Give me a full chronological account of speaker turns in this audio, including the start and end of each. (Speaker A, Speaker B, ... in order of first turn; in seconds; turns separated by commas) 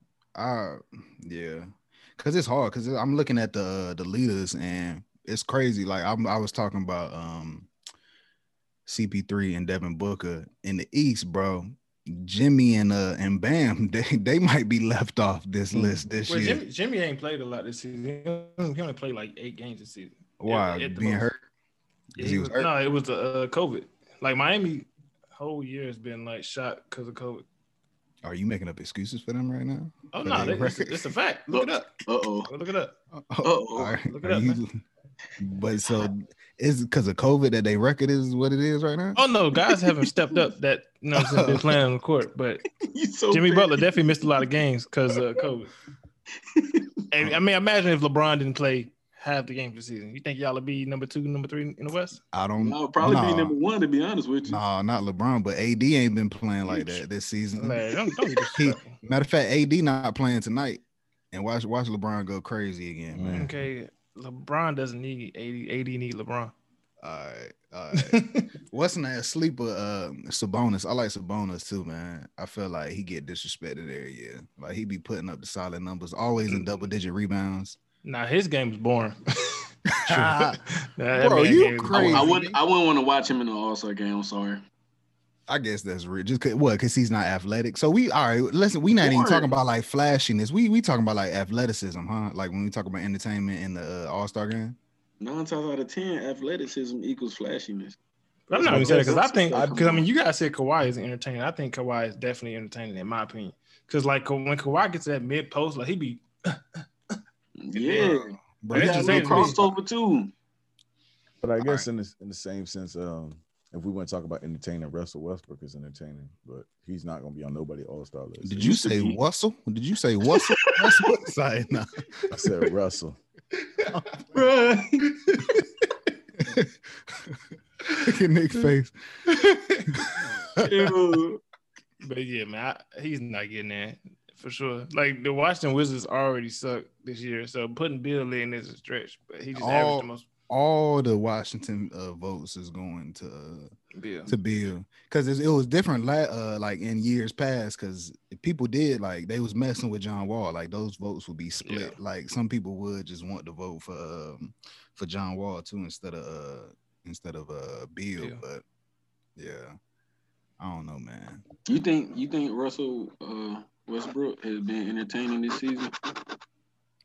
Speaker A: 0.3-7.7, Speaker A: 8.9-16.6, Speaker B: 15.8-21.3, Speaker A: 20.4-21.4, Speaker A: 22.2-22.7, Speaker B: 22.2-27.4, Speaker A: 28.2-31.0, Speaker B: 30.1-33.0, Speaker C: 31.5-32.5, Speaker A: 33.1-34.8, Speaker C: 33.4-34.0, Speaker B: 34.0-34.6, Speaker A: 35.4-39.2, Speaker B: 39.2-42.6, Speaker A: 41.2-41.8, Speaker C: 42.8-44.0, Speaker B: 43.3-45.7, Speaker C: 46.5-46.9, Speaker B: 47.1-52.2, Speaker A: 52.3-53.6, Speaker C: 52.6-54.6, Speaker A: 54.5-57.8, Speaker C: 56.7-57.0, Speaker B: 57.6-59.0, Speaker A: 58.6-63.5, Speaker D: 63.1-63.5, Speaker B: 63.3-66.5, Speaker A: 67.0-77.8, Speaker B: 67.9-68.5, Speaker B: 78.0-82.4, Speaker A: 79.9-80.6, Speaker A: 81.2-82.6, Speaker C: 81.9-84.6, Speaker A: 85.5-94.8, Speaker C: 89.0-89.5, Speaker C: 95.2-98.0, Speaker B: 98.5-106.8, Speaker C: 98.5-100.1, Speaker D: 98.6-99.8, Speaker C: 107.6-110.3, Speaker B: 107.8-109.6, Speaker A: 108.0-109.7, Speaker D: 111.4-118.8, Speaker A: 111.6-111.9, Speaker A: 118.4-122.3, Speaker C: 118.6-119.2, Speaker C: 120.3-121.1, Speaker D: 122.3-123.2, Speaker A: 123.9-124.2, Speaker C: 124.3-125.6, Speaker A: 126.4-128.9, Speaker B: 129.3-129.8, Speaker A: 129.9-130.9, Speaker C: 130.6-131.4, Speaker B: 132.0-140.3, Speaker A: 139.6-143.7, Speaker B: 143.9-144.3, Speaker A: 144.3-158.6, Speaker B: 151.7-152.0, Speaker A: 159.4-159.8, Speaker A: 160.6-161.4, Speaker C: 161.7-165.9